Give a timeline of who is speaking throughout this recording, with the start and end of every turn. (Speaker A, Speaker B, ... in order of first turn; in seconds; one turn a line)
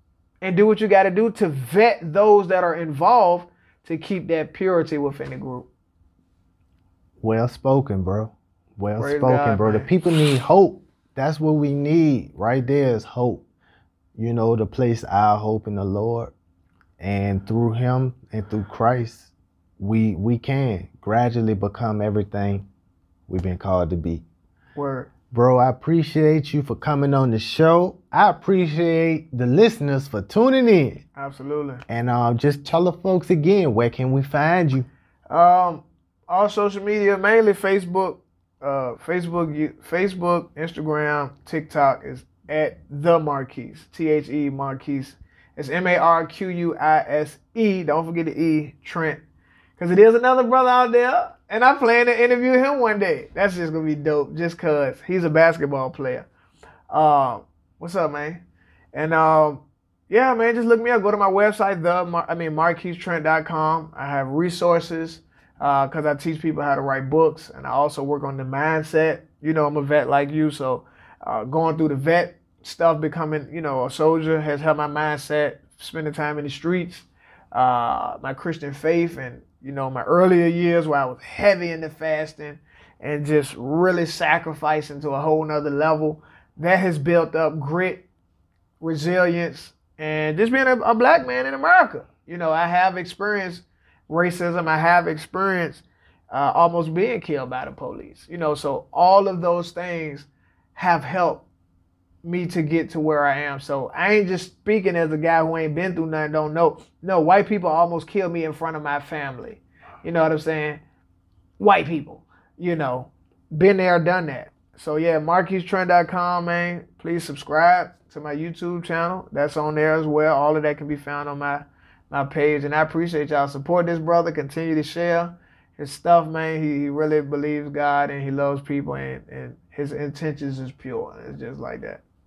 Speaker A: 0.4-5.7
Speaker B: 7.2-13.5
Speaker A: 9.0-9.9
Speaker B: 14.2-16.3
Speaker B: 17.0-22.7
Speaker B: 23.3-24.2
Speaker A: 24.8-25.1
Speaker B: 25.3-31.0
Speaker A: 31.2-31.8
Speaker B: 31.9-34.9
Speaker A: 35.3-49.2
Speaker A: 49.8-56.3
Speaker A: 56.9-58.4
Speaker A: 58.9-88.0
Speaker A: 88.8-101.5
Speaker A: 102.2-110.8
Speaker A: 111.6-132.0